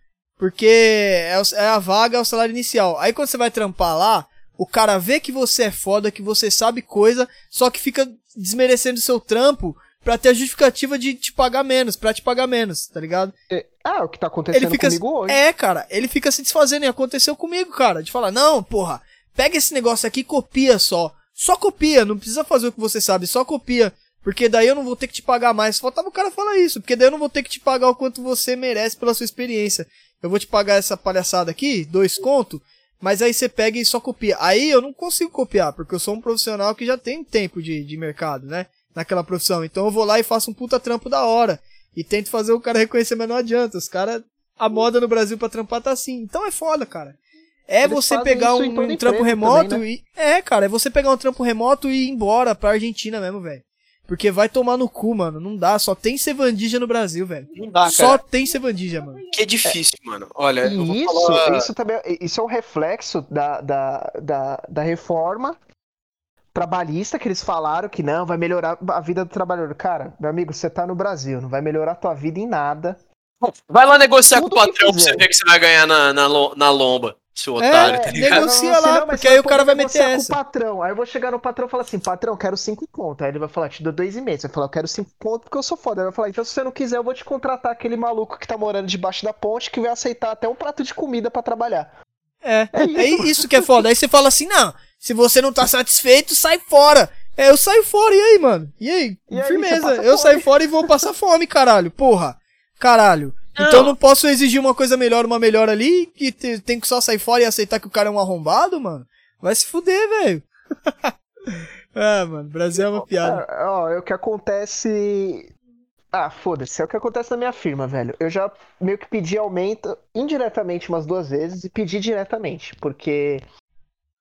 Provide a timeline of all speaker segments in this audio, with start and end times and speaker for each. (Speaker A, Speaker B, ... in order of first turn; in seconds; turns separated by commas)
Speaker A: 0.4-13.3, Speaker B: 13.5-15.4, Speaker A: 14.5-47.2, Speaker A: 47.7-59.2, Speaker B: 47.9-49.9, Speaker C: 57.5-58.2, Speaker C: 59.3-61.7, Speaker B: 60.6-65.6, Speaker B: 66.5-73.0, Speaker C: 73.4-78.5, Speaker B: 74.3-75.3, Speaker A: 77.6-80.4, Speaker B: 77.8-91.9, Speaker A: 92.4-113.4, Speaker B: 92.8-93.7, Speaker B: 99.3-100.5, Speaker C: 103.6-103.9, Speaker B: 113.2-115.5, Speaker B: 116.1-123.5